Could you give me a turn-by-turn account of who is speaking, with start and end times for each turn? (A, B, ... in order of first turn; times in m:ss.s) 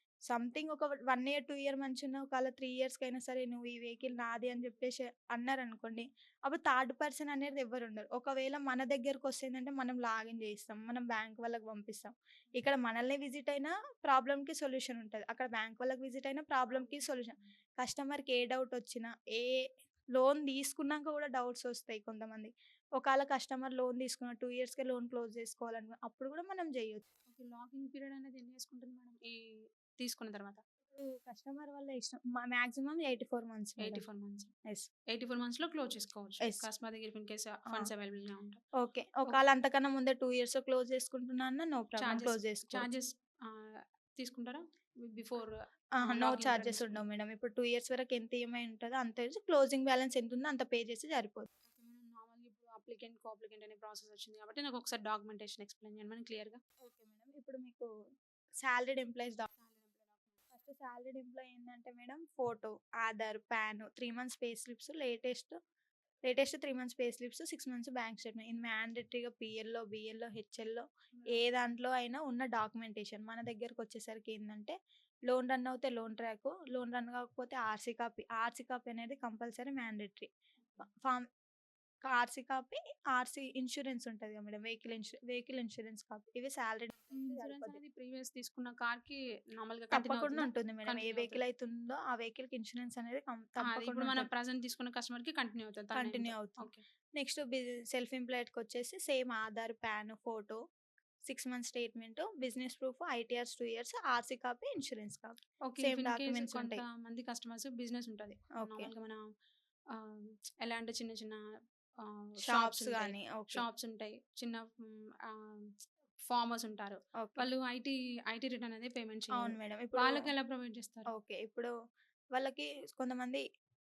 0:00.3-0:19.5 A
0:20.2-0:27.0 A
0:27.3-0:29.4 B
0:30.0-0:30.6 B
0:31.0-0:34.0 A
0:33.8-0:34.5 B
0:35.1-0:38.6 B
0:38.8-0:42.9 A
0:42.0-0:47.0 B
0:46.0-0:51.5 A
0:51.7-0:56.6 B
0:56.8-0:57.9 A
0:58.6-0:59.5 A
0:59.6-1:00.3 B
1:00.5-1:05.6 A
1:06.3-1:14.8 A
1:15.3-1:20.3 A
1:22.1-1:27.8 A
1:27.1-1:31.4 B
1:29.9-1:34.3 A
1:33.6-1:36.8 B
1:36.0-1:40.6 A
1:41.3-1:46.8 A
1:45.7-1:49.2 B
1:48.6-1:48.9 A
1:50.0-1:51.4 B
1:52.1-1:55.7 B
1:52.5-1:53.6 A
1:56.3-2:01.1 B
1:57.2-1:57.5 A
1:59.4-2:00.2 A
2:01.1-2:01.7 A
2:02.4-2:03.4 A